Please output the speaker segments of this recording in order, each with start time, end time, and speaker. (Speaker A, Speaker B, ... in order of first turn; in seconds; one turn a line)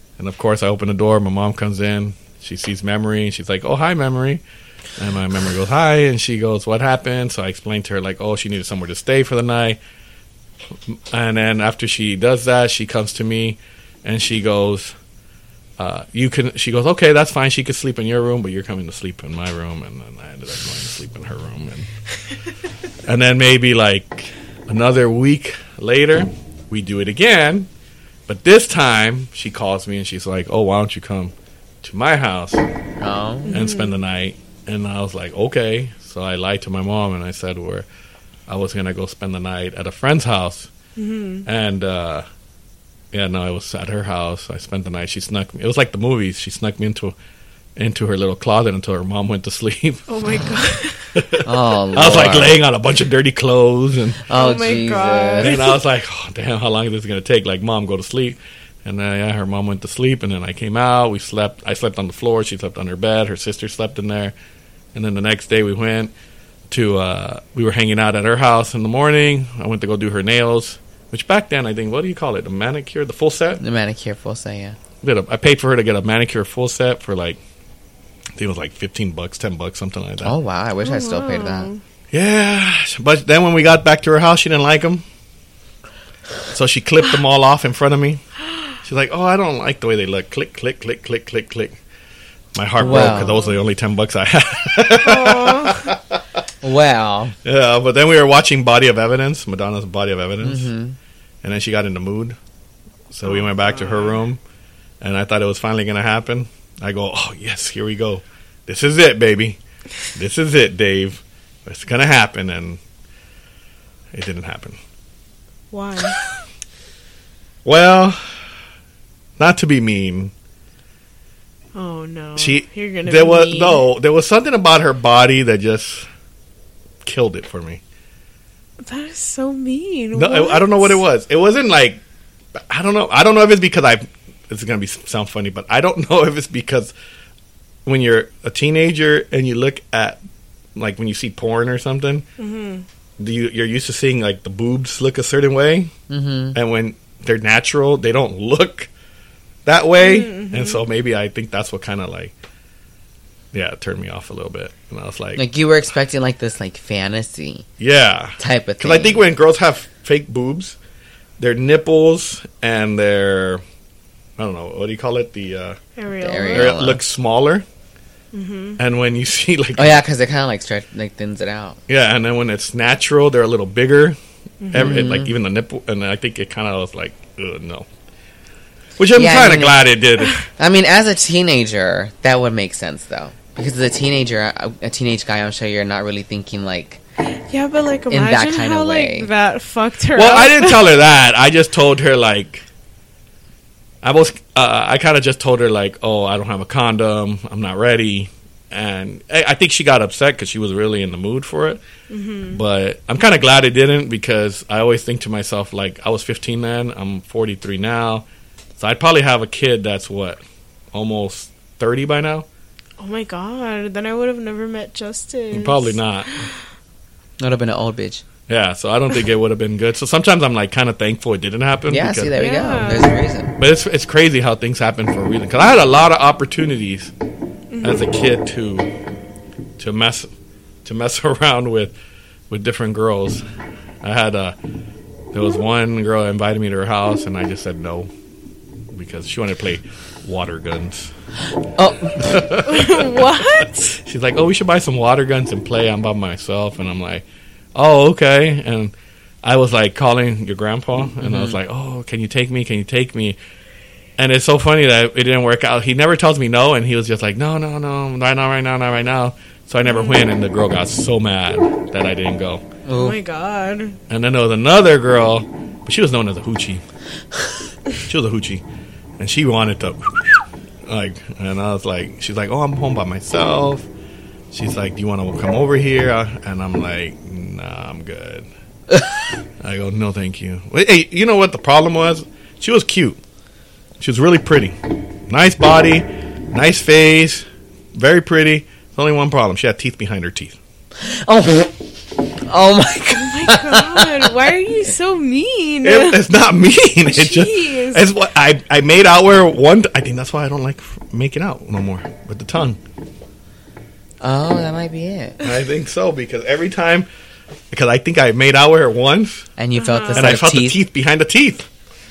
Speaker A: 0.2-4.4
Speaker A: 5.0-9.8
Speaker A: 10.9-14.9
Speaker A: 15.8-21.9
Speaker A: 23.1-27.7
Speaker A: 28.3-32.6
Speaker B: 33.0-33.5
Speaker C: 33.5-34.0
Speaker A: 33.5-37.9
Speaker A: 38.5-40.7
Speaker C: 41.0-41.5
Speaker A: 41.4-42.2
Speaker A: 43.1-47.1
Speaker A: 47.8-50.1
Speaker C: 50.1-51.1
Speaker A: 51.1-54.2
Speaker B: 51.4-52.5
Speaker B: 54.3-55.6
Speaker C: 54.3-55.8
Speaker A: 55.4-64.3
Speaker A: 64.9-66.1
Speaker A: 66.7-73.6
Speaker B: 73.6-74.8
Speaker A: 75.0-77.4
Speaker A: 78.4-80.3
Speaker B: 80.2-81.7
Speaker C: 80.8-81.8
Speaker A: 82.1-85.0
Speaker A: 86.5-88.2
Speaker A: 88.8-91.8
Speaker A: 92.5-96.2
Speaker B: 92.8-93.4
Speaker C: 92.8-93.5
Speaker C: 95.0-95.9
Speaker B: 96.6-97.3
Speaker A: 97.4-100.7
Speaker B: 100.4-101.0
Speaker A: 101.4-102.4
Speaker A: 103.1-104.4
Speaker C: 103.2-104.2
Speaker A: 105.0-112.8
Speaker A: 114.1-114.8
Speaker C: 115.7-116.2
Speaker A: 117.6-118.2
Speaker A: 119.4-120.3
Speaker C: 121.7-123.8
Speaker A: 122.4-126.1
Speaker A: 127.0-127.8
Speaker C: 128.8-131.0
Speaker A: 130.1-132.0
Speaker A: 132.7-136.9
Speaker A: 137.8-140.2
Speaker A: 140.8-142.2
Speaker C: 142.4-142.8
Speaker A: 143.2-145.9
Speaker B: 146.1-146.6
Speaker A: 146.5-148.9
Speaker A: 149.7-152.3
Speaker C: 150.0-150.8
Speaker A: 153.5-155.4
Speaker B: 155.3-157.7
Speaker A: 157.8-160.8
Speaker B: 158.4-159.3
Speaker A: 161.4-163.6
Speaker A: 164.4-165.8
Speaker C: 166.0-166.7
Speaker B: 166.2-167.0
Speaker A: 166.5-167.6
Speaker C: 168.3-168.8
Speaker A: 168.8-170.0
Speaker B: 169.8-171.8
Speaker A: 171.9-174.2
Speaker C: 174.6-174.9
Speaker A: 174.7-177.8
Speaker B: 174.7-175.3
Speaker A: 179.0-180.4
Speaker B: 179.1-179.8
Speaker B: 180.6-187.0
Speaker C: 187.5-190.9
Speaker B: 188.1-189.3
Speaker A: 190.1-192.6
Speaker A: 194.0-201.8
Speaker C: 202.1-202.6
Speaker A: 202.5-208.2
Speaker A: 208.8-210.4
Speaker A: 210.9-212.4
Speaker C: 213.0-216.5
Speaker A: 215.5-216.4
Speaker B: 217.4-218.2
Speaker A: 218.5-222.3
Speaker B: 221.9-223.5
Speaker C: 222.3-223.1
Speaker A: 223.6-227.1
Speaker C: 227.7-228.1
Speaker A: 227.8-228.9
Speaker A: 229.8-230.3
Speaker A: 230.8-231.9
Speaker A: 232.5-233.4
Speaker A: 234.0-234.5
Speaker A: 235.3-238.1
Speaker A: 238.9-241.1
Speaker B: 241.8-242.4
Speaker A: 242.2-247.2
Speaker C: 242.7-244.0
Speaker A: 247.7-253.4
Speaker B: 251.2-251.6
Speaker A: 254.2-262.6
Speaker C: 259.8-260.2
Speaker B: 262.9-263.2
Speaker C: 262.9-264.0
Speaker A: 264.1-266.8
Speaker A: 268.0-268.6
Speaker A: 269.2-273.9
Speaker A: 274.5-278.5
Speaker A: 279.6-283.2
Speaker A: 284.0-284.8
Speaker A: 285.3-290.6
Speaker B: 291.0-291.8
Speaker B: 292.4-294.4
Speaker C: 293.1-296.2
Speaker A: 295.8-302.8
Speaker C: 297.1-298.0
Speaker B: 304.2-305.4
Speaker A: 305.4-307.1
Speaker A: 307.7-309.4
Speaker B: 309.6-310.8
Speaker C: 309.8-310.3
Speaker A: 310.1-311.7